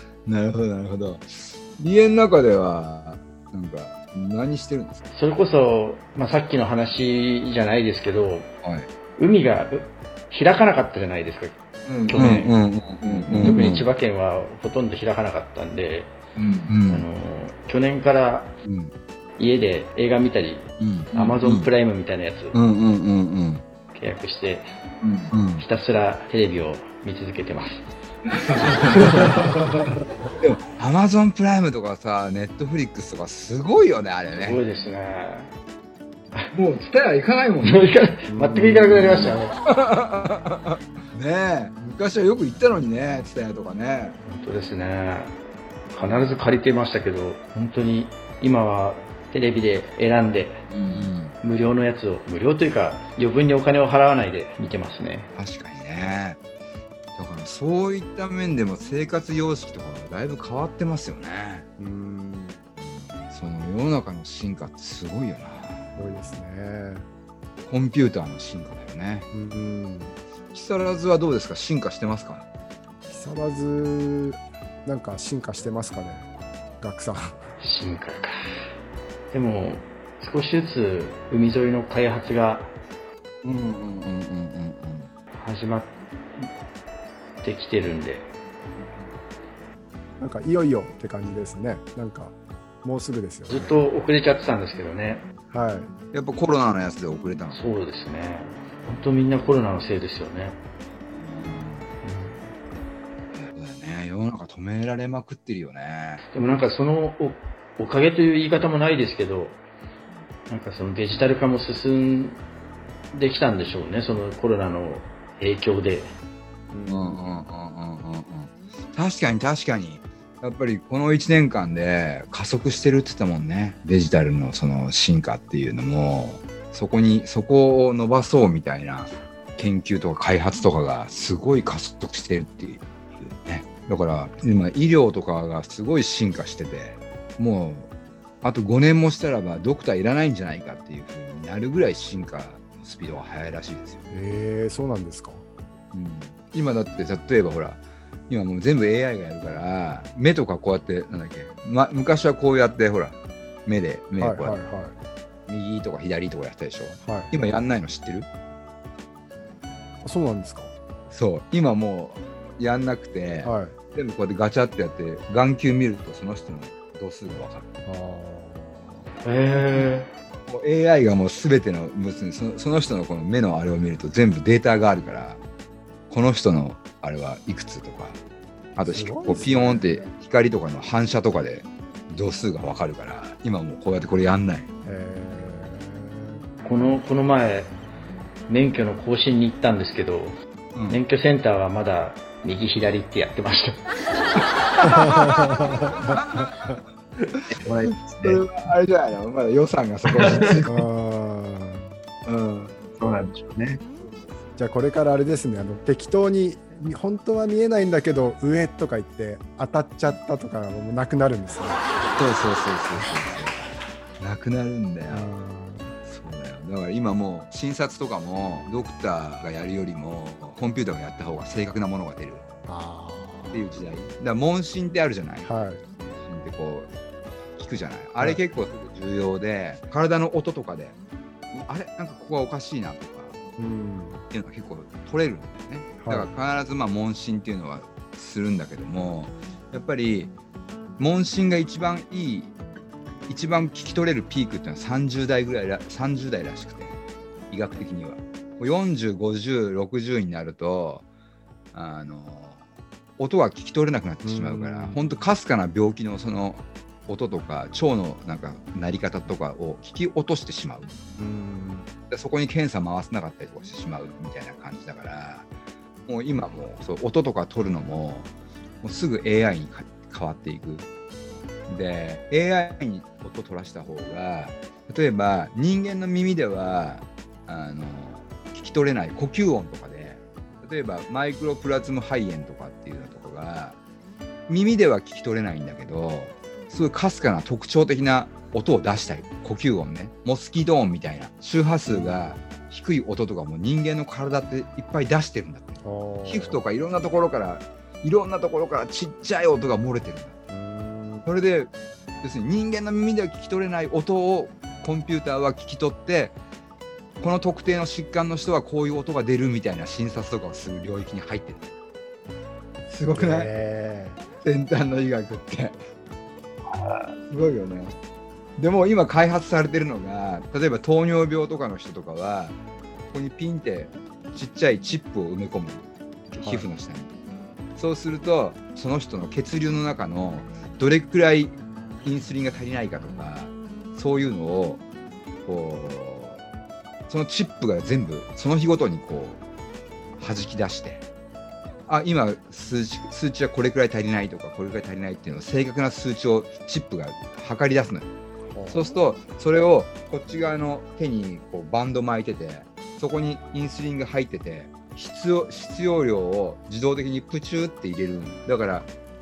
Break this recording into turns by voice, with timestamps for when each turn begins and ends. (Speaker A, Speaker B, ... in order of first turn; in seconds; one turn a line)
Speaker A: 0.2-5.0
Speaker B: 5.1-8.5
Speaker B: 9.2-11.6
Speaker A: 11.8-13.8
Speaker B: 12.1-12.5
Speaker B: 13.4-16.1
Speaker A: 16.4-17.1
Speaker B: 16.9-18.5
Speaker A: 18.6-18.9
Speaker B: 19.4-22.6
Speaker A: 20.8-21.7
Speaker A: 22.5-23.6
Speaker B: 23.9-24.7
Speaker A: 25.0-25.6
Speaker B: 25.6-27.9
Speaker A: 28.3-29.7
Speaker B: 28.9-29.3
Speaker A: 30.4-34.6
Speaker B: 34.3-35.5
Speaker A: 36.5-37.9
Speaker B: 37.6-39.5
Speaker C: 38.3-38.6
Speaker A: 38.9-44.2
Speaker B: 44.2-45.3
Speaker B: 45.9-50.7
Speaker A: 50.7-51.3
Speaker B: 51.4-55.3
Speaker A: 55.4-56.4
Speaker A: 57.2-61.6
Speaker C: 61.8-62.6
Speaker A: 62.8-66.3
Speaker C: 66.0-67.1
Speaker A: 67.6-69.3
Speaker C: 69.3-70.2
Speaker A: 70.5-72.4
Speaker C: 73.1-77.5
Speaker B: 77.6-78.4
Speaker B: 79.3-82.7
Speaker A: 83.4-85.1
Speaker B: 85.4-86.5
Speaker B: 87.4-88.3
Speaker A: 88.8-89.1
Speaker C: 90.2-93.7
Speaker B: 93.5-95.2
Speaker C: 95.5-95.9
Speaker A: 96.1-97.7
Speaker B: 97.5-100.6
Speaker A: 101.2-101.9
Speaker B: 102.0-102.4
Speaker A: 103.3-106.2
Speaker B: 106.3-109.6
Speaker B: 110.5-112.4
Speaker B: 113.1-116.2
Speaker C: 116.7-117.2
Speaker A: 116.9-137.9
Speaker A: 138.4-144.0
Speaker C: 144.1-145.4
Speaker A: 145.9-154.6
Speaker C: 154.2-154.9
Speaker A: 155.5-158.3
Speaker C: 157.0-157.3
Speaker C: 160.0-160.7
Speaker A: 161.1-167.7
Speaker C: 163.4-163.8
Speaker C: 167.8-169.1
Speaker B: 169.2-170.1
Speaker A: 170.5-175.4
Speaker A: 176.1-178.2
Speaker A: 178.8-184.7
Speaker C: 178.8-180.1
Speaker C: 184.8-186.4
Speaker B: 186.6-187.7
Speaker B: 188.5-190.4
Speaker A: 190.7-191.0
Speaker B: 190.9-193.8
Speaker A: 194.7-196.8
Speaker C: 194.8-196.7
Speaker D: 197.6-198.4
Speaker A: 198.2-200.8
Speaker D: 200.1-200.6
Speaker C: 200.7-201.9
Speaker A: 202.2-202.7
Speaker D: 203.0-203.8
Speaker C: 204.6-211.8
Speaker A: 212.2-213.6
Speaker A: 214.2-215.3
Speaker C: 215.1-216.0
Speaker A: 216.1-222.4
Speaker C: 222.7-223.7
Speaker A: 223.5-225.5
Speaker C: 225.4-225.8
Speaker A: 226.2-226.9
Speaker A: 227.6-230.9
Speaker A: 231.5-233.4
Speaker C: 233.6-234.2
Speaker A: 234.3-240.3
Speaker C: 236.0-236.3
Speaker A: 241.0-242.5
Speaker A: 243.3-246.9
Speaker A: 247.5-251.0
Speaker A: 251.7-252.6
Speaker A: 253.2-260.9
Speaker C: 254.2-255.0
Speaker C: 261.2-261.9
Speaker A: 262.1-265.5
Speaker A: 266.1-268.3
Speaker A: 268.8-270.9
Speaker A: 271.7-283.8
Speaker A: 284.5-300.4
Speaker C: 291.9-292.2
Speaker C: 295.8-296.6
Speaker C: 300.5-301.3
Speaker A: 301.2-306.4
Speaker A: 307.2-311.7
Speaker A: 312.9-313.5
Speaker C: 313.1-314.2
Speaker A: 314.4-315.8
Speaker D: 316.7-317.1
Speaker A: 317.3-317.9
Speaker A: 318.6-322.6
Speaker A: 323.1-327.1
Speaker C: 326.4-326.6
Speaker A: 327.8-334.8
Speaker A: 335.4-336.4
Speaker A: 337.1-339.4
Speaker A: 340.2-341.0
Speaker A: 341.9-348.1
Speaker C: 348.5-348.9
Speaker A: 348.7-358.9